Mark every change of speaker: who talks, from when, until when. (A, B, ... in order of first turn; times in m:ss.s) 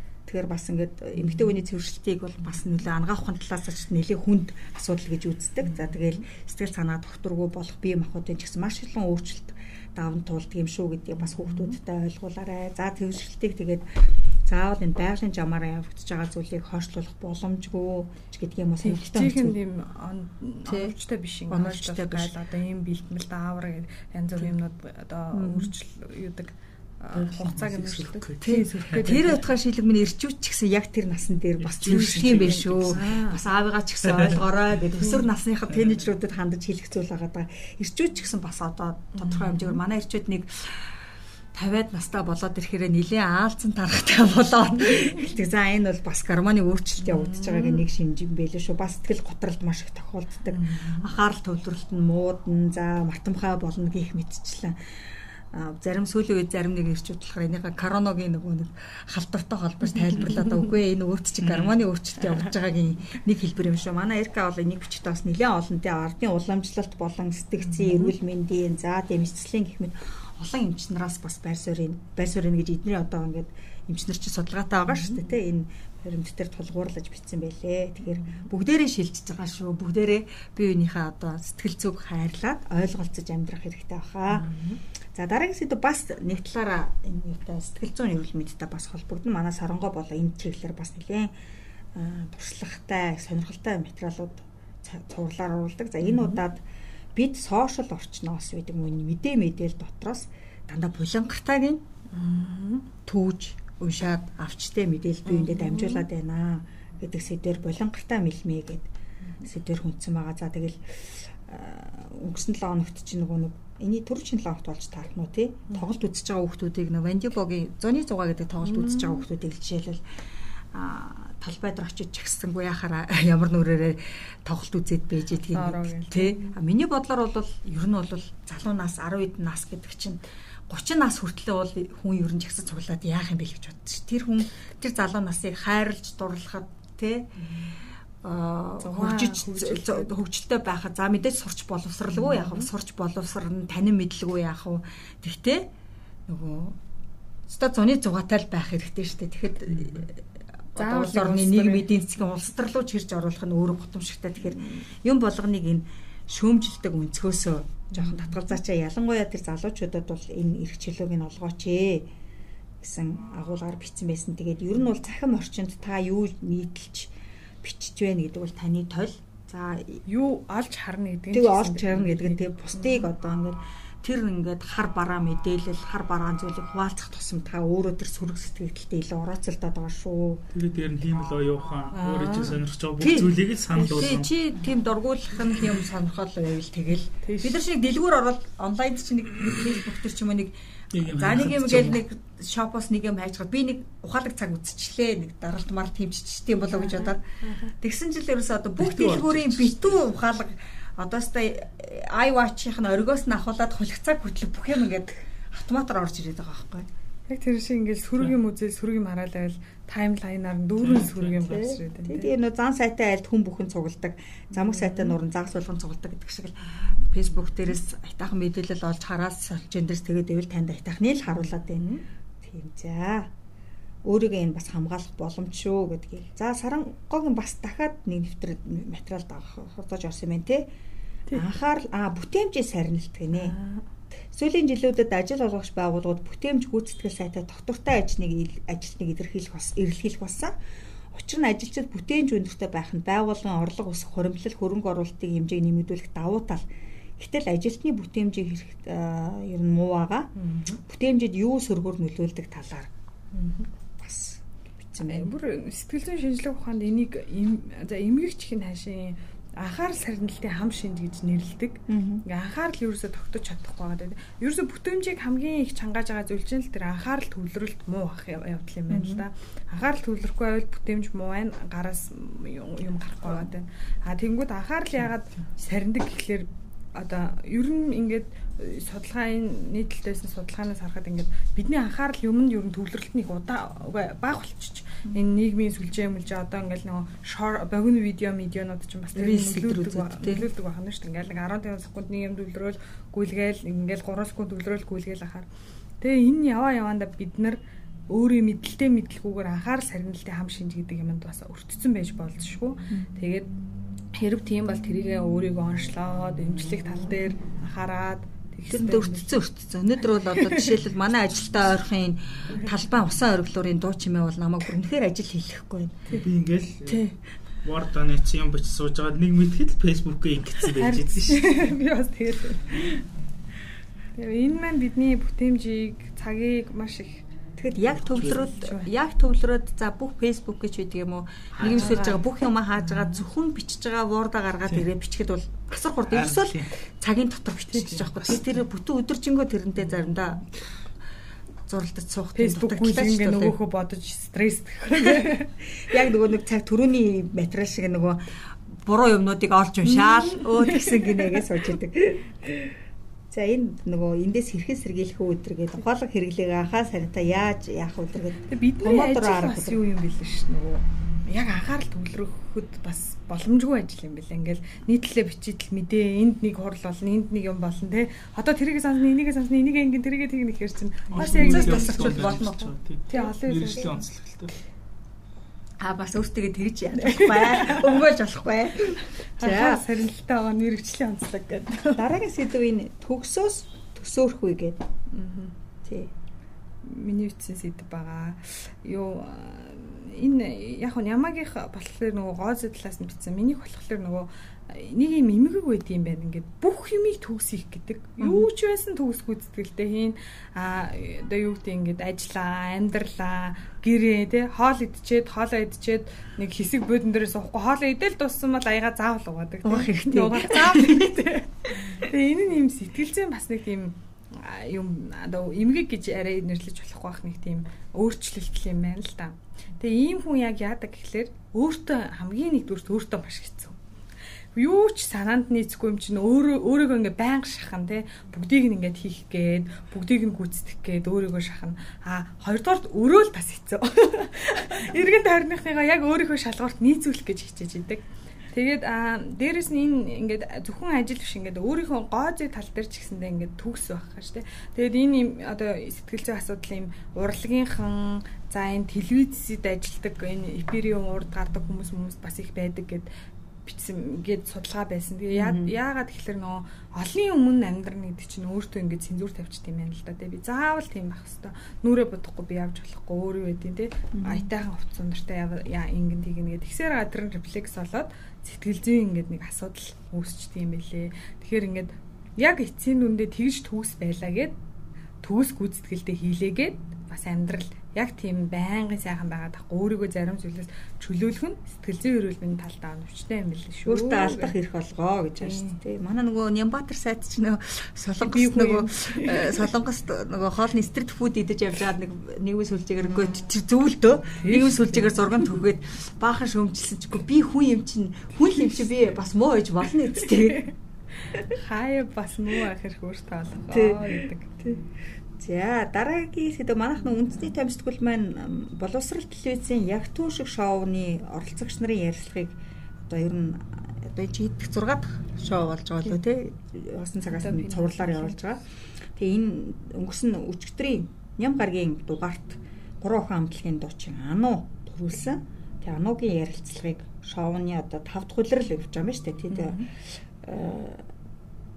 0:00.3-0:19.6 A
0:01.2-0:01.5 B
0:05.6-0:06.0 B
0:11.4-0:11.8 B
0:18.8-0:29.4 B
0:20.6-0:20.9 A
0:21.5-0:22.3 A
0:25.3-0:25.7 A
0:27.1-0:29.1 C
0:28.4-1:24.5 A
0:31.6-0:33.2 C
0:31.8-0:33.4 B
0:34.0-0:34.4 C
0:35.7-0:36.0 C
0:39.1-0:39.8 B
0:47.0-0:47.9 B
0:50.5-0:51.0 B
1:01.4-1:01.8 C
1:07.7-1:08.1 B
1:14.9-1:15.2 B
1:18.0-1:18.4 B
1:24.3-1:24.8 B
1:25.1-1:31.3 A
1:31.9-1:36.6 A
1:36.0-1:36.4 B
1:37.1-1:41.8 A
1:42.1-1:42.9 B
1:43.0-1:48.9 A
1:45.3-1:46.1 B
1:49.4-2:00.0 A
1:58.6-1:59.2 B
2:00.7-2:17.4 A
2:05.5-2:06.5 B
2:18.2-2:25.7 A
2:18.8-2:20.1 B
2:22.1-2:22.7 B
2:26.3-2:26.8 A
2:27.5-2:30.2 A
2:30.7-2:42.1 A
2:30.8-2:31.9 B
2:34.5-2:34.8 B
2:37.9-2:38.4 B
2:42.8-2:47.1 A
2:47.6-2:50.0 A
2:50.1-2:53.1 B
2:51.3-3:00.4 A
3:00.5-3:04.3 C
3:01.9-3:02.6 B
3:03.0-3:26.9 A
3:07.2-3:07.6 B
3:10.9-3:12.0 C
3:16.7-3:17.7 B
3:18.8-3:20.1 C
3:27.3-3:32.3 B
3:30.8-3:31.7 C
3:31.5-3:43.3 A
3:34.6-3:35.2 B
3:41.8-3:42.0 B
3:44.0-3:50.7 A
3:51.3-3:53.5 A
3:53.3-3:53.8 B
3:54.2-4:00.5 A
4:01.1-4:06.6 A
4:07.2-4:12.9 A
4:10.4-4:10.8 B
4:13.3-4:13.7 B
4:14.0-4:15.3 A
4:15.1-4:55.5 B
4:21.9-4:22.2 A
4:28.9-4:29.2 A
4:49.1-4:50.5 A
4:56.0-5:03.5 B
5:04.1-5:09.4 B
5:08.7-5:16.1 A
5:10.2-5:10.8 B
5:16.1-5:17.0 C
5:16.9-5:17.1 A
5:17.6-5:21.7 C
5:20.7-5:23.0 B
5:24.2-5:27.2 B
5:27.6-5:40.5 A
5:28.1-5:28.9 B
5:31.6-5:32.0 C
5:31.6-5:32.2 B
5:36.1-5:36.8 C
5:37.9-5:38.6 C
5:41.7-5:43.6 A
5:42.3-5:45.5 B
5:45.0-5:52.4 A
5:49.9-5:51.6 B
5:53.3-5:59.8 A
5:58.5-6:12.4 B
6:11.1-6:14.5 C
6:11.2-6:12.7 A
6:13.1-6:14.0 B
6:15.8-6:19.8 A
6:17.0-6:17.9 B
6:19.4-6:22.1 B
6:21.9-6:24.8 A
6:25.1-6:25.5 B
6:25.8-6:26.1 A
6:26.8-7:03.8 B
6:38.2-6:38.4 A
6:49.6-6:52.0 A
7:04.5-7:33.1 B
7:33.6-7:54.5 B
7:35.3-7:35.7 A
7:44.1-7:44.5 A
7:55.2-8:04.5 B
8:03.8-8:20.7 A
8:05.4-8:05.8 B
8:08.2-8:09.6 B
8:14.3-8:15.3 B
8:21.3-8:24.6 B
8:23.7-8:24.8 A
8:25.4-8:38.6 A
8:37.3-8:38.4 B
8:39.2-8:49.9 A
8:49.5-8:49.9 B
8:50.4-8:51.0 A